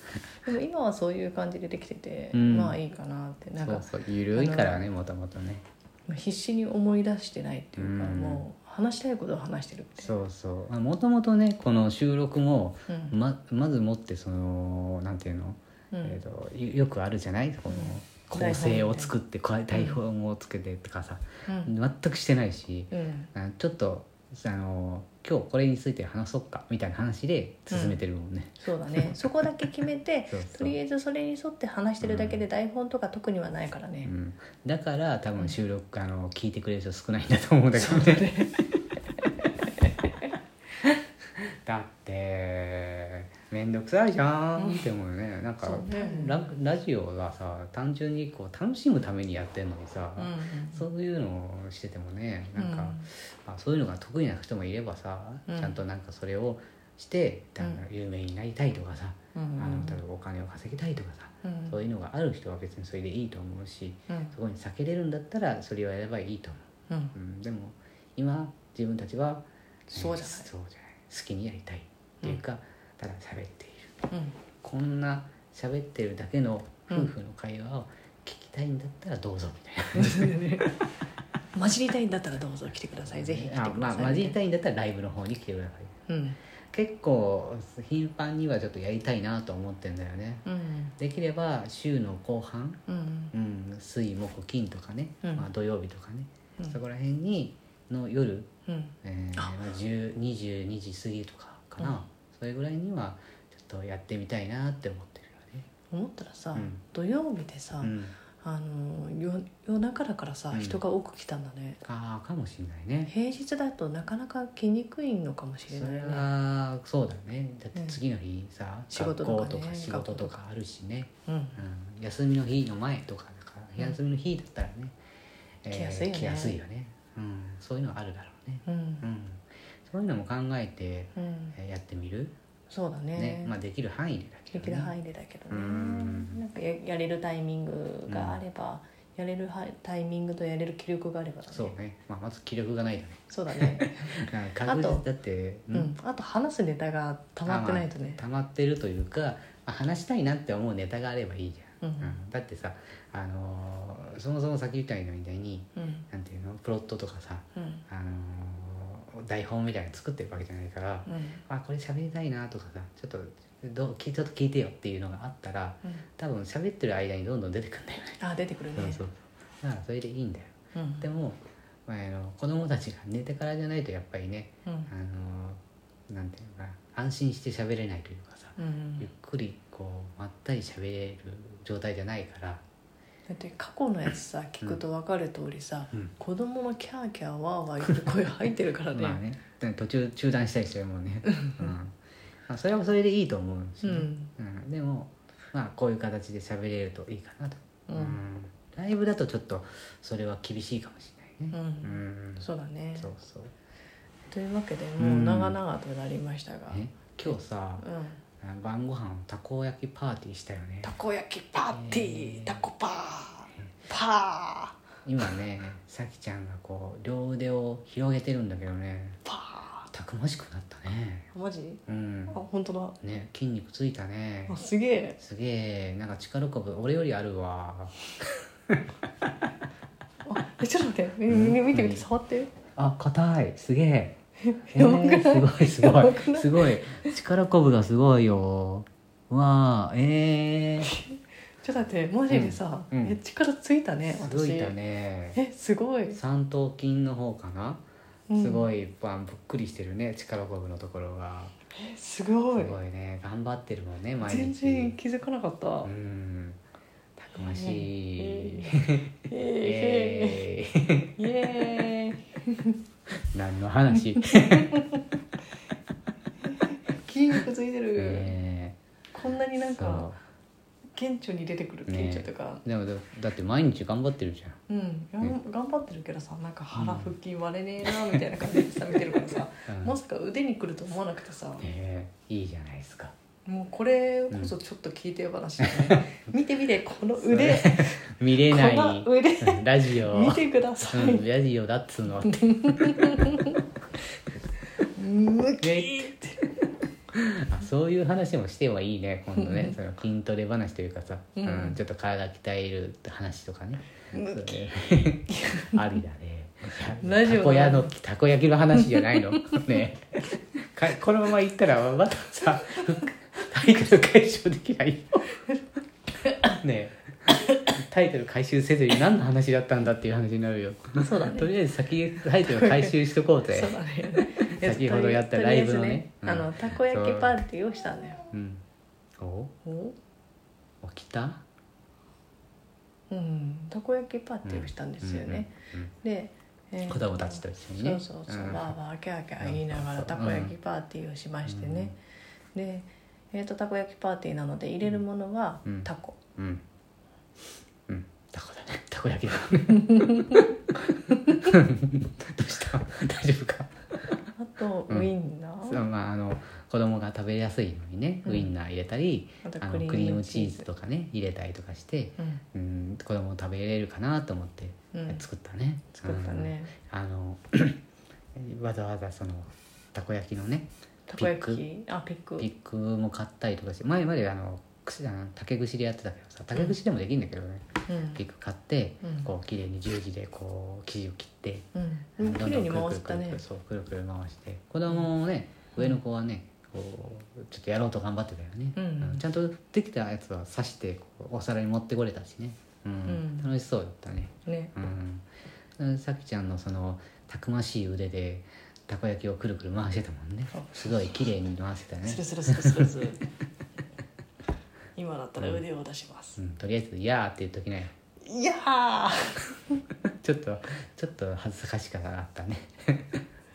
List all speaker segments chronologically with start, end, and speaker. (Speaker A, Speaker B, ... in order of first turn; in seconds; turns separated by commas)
Speaker A: 0.4-4.8, Speaker B: 2.3-2.8, Speaker B: 3.6-5.6, Speaker A: 6.1-10.1, Speaker B: 7.8-8.4, Speaker B: 10.0-29.2, Speaker A: 12.9-13.1, Speaker A: 15.9-16.2, Speaker A: 17.7-19.1, Speaker A: 19.7-20.0, Speaker A: 21.4-21.7, Speaker A: 22.9-23.3, Speaker A: 27.7-28.0, Speaker A: 28.6-34.1, Speaker B: 30.3-30.7, Speaker B: 32.0-32.4, Speaker B: 34.0-38.3, Speaker A: 37.7-38.5, Speaker B: 41.4-74.0, Speaker A: 44.6-44.8, Speaker A: 45.6-46.4, Speaker A: 50.2-50.8, Speaker A: 52.5-53.1, Speaker A: 55.5-55.8, Speaker A: 59.3-60.0, Speaker A: 61.4-61.8, Speaker A: 64.1-64.3, Speaker A: 69.9-70.5, Speaker A: 74.1-74.3, Speaker B: 74.6-80.6, Speaker A: 80.0-80.7, Speaker A: 81.5-84.4, Speaker B: 83.2-86.0, Speaker A: 86.1-86.4, Speaker B: 86.7-90.5, Speaker A: 90.4-91.0, Speaker B: 91.0-92.8, Speaker A: 92.9-93.3, Speaker B: 93.3-98.5, Speaker A: 98.7-99.6, Speaker B: 99.0-105.7, Speaker A: 105.9-111.8, Speaker B: 106.5-106.8, Speaker B: 107.8-108.2, Speaker B: 110.5-110.8, Speaker B: 111.8-113.1, Speaker A: 113.1-116.3, Speaker B: 115.7-125.0, Speaker A: 118.9-120.4, Speaker A: 121.3-121.6, Speaker B: 125.6-132.3, Speaker A: 125.7-126.6, Speaker A: 128.7-129.1, Speaker A: 131.2-131.6, Speaker A: 132.7-133.5, Speaker B: 133.1-134.9, Speaker A: 134.5-141.7, Speaker B: 135.5-136.4, Speaker B: 138.1-138.4, Speaker B: 141.5-145.9, Speaker A: 143.3-145.0, Speaker A: 145.7-148.2, Speaker B: 147.4-168.2, Speaker A: 151.8-152.2, Speaker A: 155.8-156.1, Speaker A: 157.6-157.8, Speaker A: 161.1-161.4, Speaker A: 168.2-169.0, Speaker B: 168.7-182.6, Speaker A: 170.7-171.0, Speaker A: 174.7-174.9, Speaker A: 178.6-179.1, Speaker A: 183.3-189.2, Speaker B: 188.9-191.9, Speaker A: 191.2-191.5, Speaker B: 192.5-202.4, Speaker A: 193.8-194.3, Speaker A: 197.9-198.2, Speaker A: 201.5-203.1, Speaker B: 202.9-203.5, Speaker A: 204.3-206.8, Speaker B: 205.0-205.6, Speaker B: 206.7-207.8, Speaker A: 207.8-208.2, Speaker B: 208.4-210.9, Speaker A: 210.8-214.8, Speaker B: 211.7-212.6, Speaker B: 215.0-219.2, Speaker A: 219.2-219.9, Speaker B: 219.9-221.3, Speaker A: 221.3-223.0, Speaker B: 221.9-222.4, Speaker B: 223.0-224.6, Speaker A: 224.5-225.2, Speaker B: 225.2-228.0, Speaker A: 230.2-232.5, Speaker B: 231.3-232.0, Speaker B: 232.7-234.1, Speaker A: 234.4-237.2, Speaker B: 234.7-240.9, Speaker A: 241.6-244.8, Speaker B: 242.3-243.2, Speaker B: 244.1-245.4, Speaker A: 245.3-246.2, Speaker B: 246.1-251.5, Speaker A: 248.3-248.7, Speaker A: 251.7-252.7, Speaker B: 252.5-255.0, Speaker A: 254.2-255.9, Speaker B: 255.8-256.6, Speaker B: 257.2-261.1, Speaker A: 257.4-258.8, Speaker A: 259.3-260.4, Speaker A: 261.2-262.8, Speaker B: 263.3-265.1, Speaker A: 266.4-268.3, Speaker B: 267.9-268.8, Speaker A: 269.1-270.1, Speaker B: 269.7-270.2, Speaker A: 270.9-272.6, Speaker B: 271.9-274.6, Speaker A: 274.7-281.6, Speaker B: 276.7-277.1, Speaker B: 279.6-280.0, Speaker B: 281.6-283.1, Speaker A: 283.4-291.2, Speaker B: 285.6-286.0, Speaker B: 287.2-293.0, Speaker A: 292.3-293.6, Speaker A: 294.8-296.6, Speaker B: 295.6-296.1, Speaker B: 297.1-315.3, Speaker A: 299.4-299.8, Speaker A: 301.4-301.8, Speaker A: 304.1-305.8, Speaker A: 307.0-307.9, Speaker A: 308.9-309.6, Speaker B: 316.4-323.8, Speaker A: 321.0-321.5, Speaker A: 322.4-328.3, Speaker B: 324.4-327.4, Speaker B: 328.3-328.6, Speaker B: 329.2-329.5, Speaker A: 329.6-329.9, Speaker B: 330.8-331.4, Speaker A: 333.1-341.9, Speaker B: 334.4-335.9, Speaker B: 336.9-338.7, Speaker B: 339.4-340.5, Speaker B: 341.4-341.9, Speaker A: 342.5-346.2, Speaker B: 345.6-346.6, Speaker B: 347.9-350.5, Speaker B: 351.1-353.9, Speaker A: 354.4-355.8, Speaker B: 355.6-367.8, Speaker A: 358.2-358.5, Speaker A: 359.4-360.6, Speaker A: 362.2-362.4, Speaker A: 364.9-365.2, Speaker A: 366.0-366.7, Speaker B: 368.3-371.6, Speaker A: 371.1-372.5, Speaker B: 372.4-381.7, Speaker A: 377.9-378.2, Speaker A: 379.0-379.3, Speaker A: 381.7-383.4, Speaker B: 382.2-395.2, Speaker A: 388.7-389.2, Speaker A: 393.1-393.5, Speaker A: 394.4-394.7, Speaker B: 395.8-402.9, Speaker A: 400.5-401.1, Speaker A: 402.0-403.2, Speaker A: 404.9-406.4, Speaker B: 406.4-407.9, Speaker A: 408.2-409.8, Speaker B: 410.1-413.2